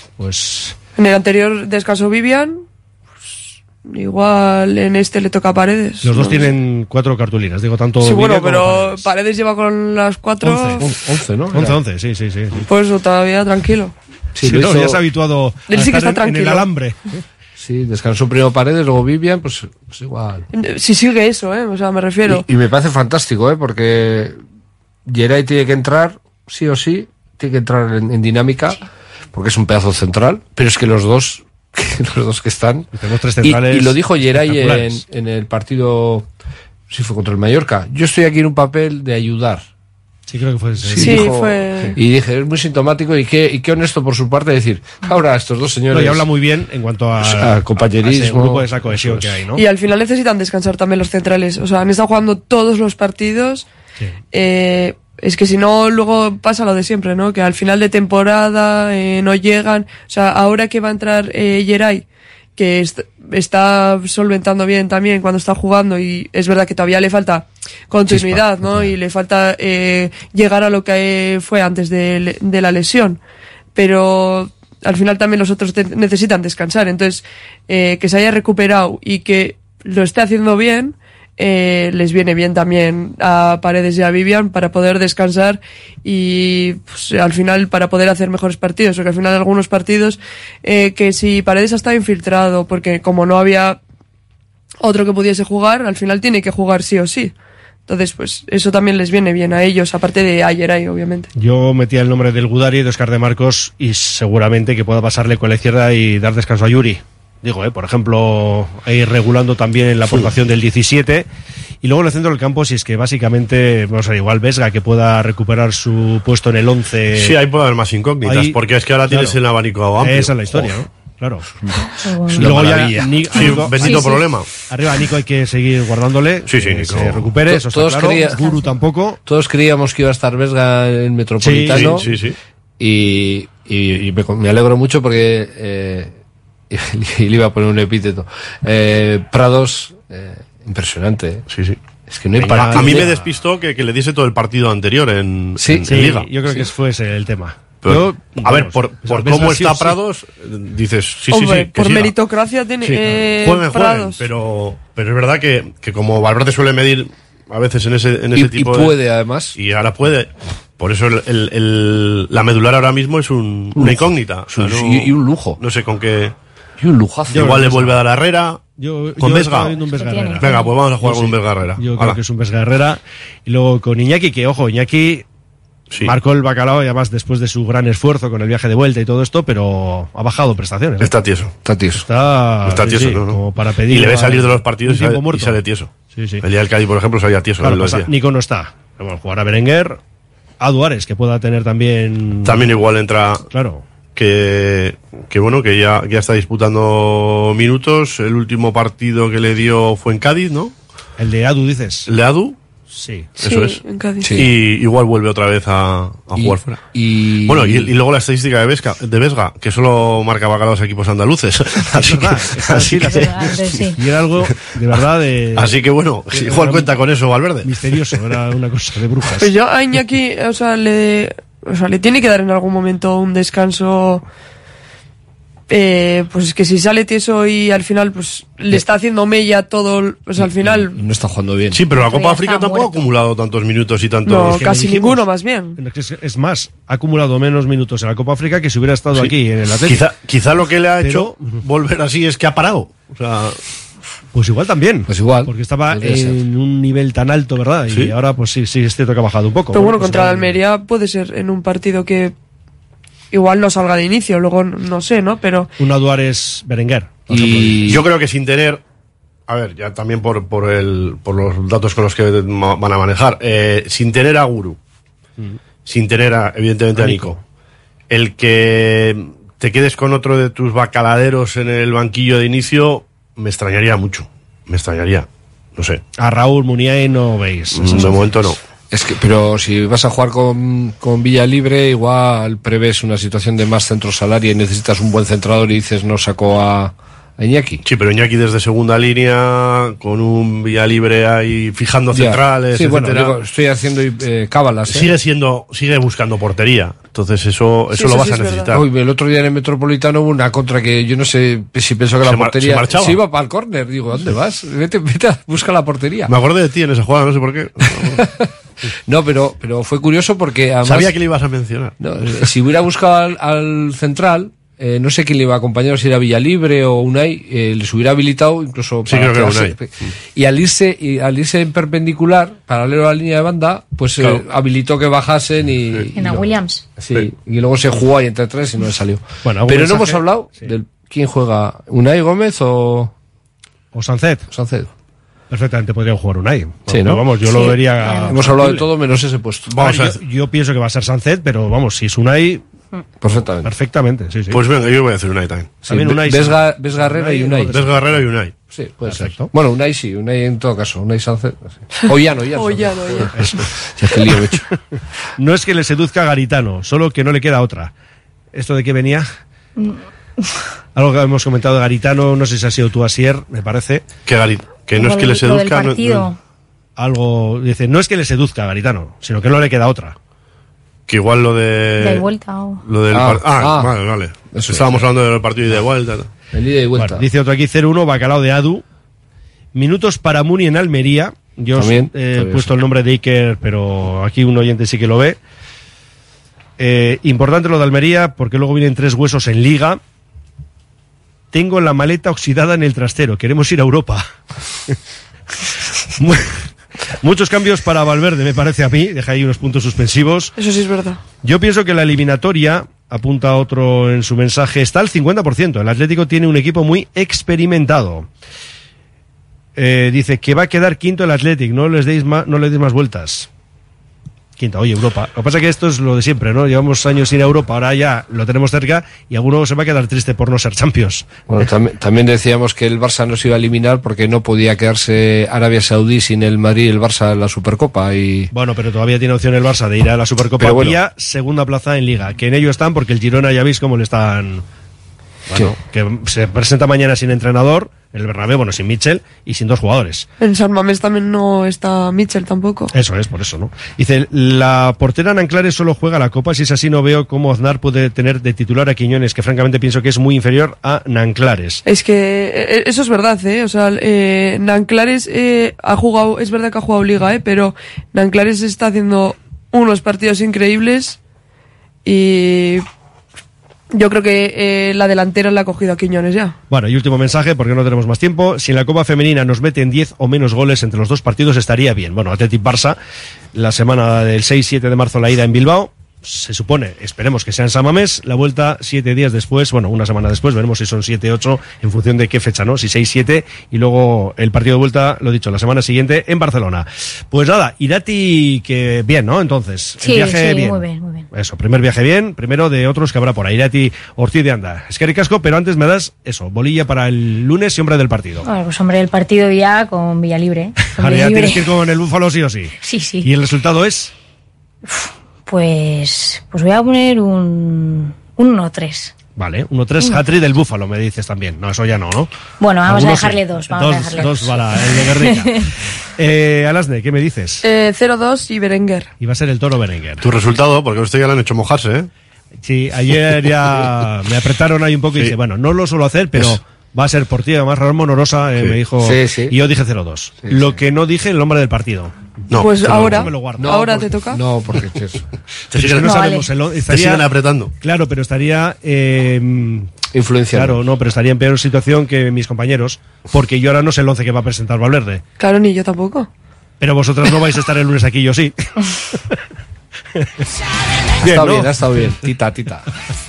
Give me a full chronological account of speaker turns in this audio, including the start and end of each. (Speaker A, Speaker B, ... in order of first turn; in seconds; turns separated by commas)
Speaker A: 0.2-0.8, Speaker B: 1.0-2.6, Speaker B: 3.2-6.5, Speaker A: 6.0-9.1, Speaker B: 8.0-10.9, Speaker A: 10.4-10.9, Speaker C: 10.8-11.8, Speaker A: 11.5-12.6, Speaker B: 12.7-13.9, Speaker C: 14.4-15.0, Speaker A: 14.4-17.2, Speaker B: 15.7-16.7, Speaker C: 17.6-20.5, Speaker B: 20.5-22.4, Speaker C: 22.2-24.4, Speaker C: 25.1-28.8, Speaker C: 29.3-32.9, Speaker A: 32.9-35.0, Speaker C: 33.4-36.3, Speaker C: 36.9-39.7, Speaker A: 40.3-41.2, Speaker C: 40.9-46.2, Speaker B: 41.0-41.9, Speaker A: 45.9-49.6, Speaker C: 47.2-49.4, Speaker B: 49.5-53.7, Speaker B: 54.3-62.0, Speaker B: 62.6-73.2, Speaker C: 68.1-68.9, Speaker B: 73.8-93.8, Speaker B: 94.8-97.3, Speaker B: 97.9-101.3, Speaker A: 101.4-111.3, Speaker A: 111.8-117.4, Speaker D: 117.1-120.7, Speaker A: 118.2-119.4, Speaker A: 120.0-121.5, Speaker E: 122.1-122.4, Speaker A: 122.3-124.1, Speaker C: 122.3-123.1, Speaker D: 122.5-124.5, Speaker E: 123.3-124.2, Speaker A: 124.7-129.2, Speaker D: 126.5-127.3, Speaker C: 127.5-128.4, Speaker C: 129.3-132.0, Speaker A: 131.4-132.0, Speaker D: 131.7-132.4, Speaker C: 132.8-136.2, Speaker C: 136.7-141.4, Speaker D: 141.5-141.8, Speaker C: 142.1-143.1, Speaker A: 142.4-143.2, Speaker D: 142.4-146.4, Speaker C: 145.6-146.0, Speaker A: 145.8-150.0, Speaker D: 147.8-152.2, Speaker B: 151.3-154.2, Speaker D: 152.8-159.0, Speaker C: 158.3-159.5, Speaker D: 159.6-166.3, Speaker C: 163.8-165.6, Speaker C: 166.8-167.5, Speaker A: 167.3-168.0, Speaker D: 167.3-168.6, Speaker A: 168.8-170.5, Speaker D: 169.2-169.8, Speaker E: 169.9-170.7, Speaker D: 170.4-172.2, Speaker A: 171.0-175.2, Speaker A: 176.0-181.1, Speaker D: 181.0-181.5, Speaker C: 181.6-182.0, Speaker A: 182.0-186.4, Speaker D: 182.7-188.1, Speaker A: 187.6-190.0, Speaker A: 190.6-192.7, Speaker D: 192.4-193.5, Speaker A: 193.5-193.8, Speaker D: 194.1-200.7, Speaker A: 201.2-202.1, Speaker D: 202.1-202.6, Speaker A: 202.9-203.3, Speaker D: 203.4-206.8, Speaker B: 203.4-204.3, Speaker C: 204.2-204.5, Speaker C: 206.3-207.9, Speaker D: 207.4-213.5, Speaker A: 211.9-217.0, Speaker E: 212.9-213.9, Speaker D: 215.6-218.1, Speaker A: 217.6-219.5, Speaker B: 219.4-224.2, Speaker B: 225.7-231.0, Speaker C: 230.4-231.9, Speaker D: 231.7-234.5, Speaker E: 231.9-233.1, Speaker B: 234.3-235.8, Speaker A: 234.3-240.0, Speaker D: 239.1-243.6, Speaker A: 241.0-241.6, Speaker A: 244.3-250.6, Speaker C: 245.1-246.4, Speaker B: 249.7-252.3, Speaker B: 253.3-255.7, Speaker A: 255.8-258.0, Speaker C: 257.3-258.0, Speaker D: 257.9-258.8, Speaker D: 259.5-264.8, Speaker D: 265.9-267.4, Speaker A: 267.0-267.4, Speaker D: 268.1-276.0, Speaker A: 276.2-278.5, Speaker D: 277.7-278.6, Speaker C: 278.9-287.8, Speaker D: 287.9-293.4, Speaker C: 292.1-295.1, Speaker D: 294.9-298.8, Speaker B: 297.9-298.7, Speaker C: 298.7-306.3, Speaker D: 302.2-303.2, Speaker D: 306.3-308.2, Speaker C: 307.9-308.4, Speaker C: 309.1-311.2, Speaker D: 310.8-311.9, Speaker C: 312.0-333.1, Speaker D: 319.1-320.1, Speaker A: 329.4-330.7, Speaker A: 333.9-334.5, Speaker C: 334.5-334.9, Speaker A: 335.5-338.9, Speaker C: 336.9-337.3, Speaker E: 337.5-338.3, Speaker C: 338.3-339.7, Speaker D: 339.7-340.2, Speaker A: 339.7-342.6, Speaker C: 343.2-343.7, Speaker A: 343.6-344.6, Speaker D: 344.5-345.9, Speaker A: 345.9-348.3, Speaker C: 345.9-347.9, Speaker D: 347.7-348.6, Speaker C: 348.6-354.6, Speaker A: 349.0-349.5, Speaker B: 352.5-353.3, Speaker A: 353.4-353.7, Speaker A: 355.4-357.9, Speaker A: 358.5-359.3, Speaker A: 360.9-364.1, Speaker D: 364.3-366.3, Speaker E: 364.9-366.4, Speaker A: 367.0-370.2, Speaker D: 371.1-372.3, Speaker E: 372.0-372.8, Speaker D: 372.9-376.3, Speaker C: 373.1-375.0, Speaker C: 376.5-377.2, Speaker A: 376.9-378.8, Speaker A: 379.7-385.4, Speaker C: 381.8-382.7, Speaker A: 386.8-390.0, Speaker A: 391.5-394.3, Speaker A: 396.2-396.6, Speaker A: 397.2-400.5, Speaker B: 400.6-401.2, Speaker A: 401.4-408.3, Speaker A: 409.8-413.5, Speaker A: 414.6-421.5, Speaker C: 421.5-428.5, Speaker A: 428.5-434.6, Speaker C: 430.6-431.0, Speaker A: 435.5-440.3, Speaker B: 440.4-442.9, Speaker A: 442.9-451.8, Speaker B: 451.9-461.2, Speaker B: 462.1-462.9, Speaker B: 463.9-466.6, Speaker A: 466.7-473.0, Speaker A: 473.5-498.5, Speaker E: 490.0-491.3, Speaker E: 498.4-501.6, Speaker A: 501.0-504.1, Speaker E: 502.8-503.3, Speaker E: 504.9-509.1, Speaker A: 509.4-512.3, Speaker E: 512.6-515.7, Speaker A: 512.9-515.6, Speaker A: 516.2-517.6, Speaker B: 517.6-519.1, Speaker A: 519.2-520.3, Speaker D: 520.2-522.1, Speaker A: 522.6-534.0, Speaker C: 529.0-529.5, Speaker C: 530.4-530.7, Speaker D: 532.5-533.2, Speaker B: 532.5-534.4, Speaker C: 533.6-535.2, Speaker D: 535.7-536.3, Speaker A: 535.7-537.3, Speaker E: 536.0-536.4, Speaker D: 536.9-537.7, Speaker A: 537.8-545.2, Speaker C: 540.1-540.8, Speaker B: 545.4-546.3, Speaker A: 546.8-549.4, Speaker A: 550.1-550.5, Speaker A: 551.2-552.2, Speaker C: 551.2-552.9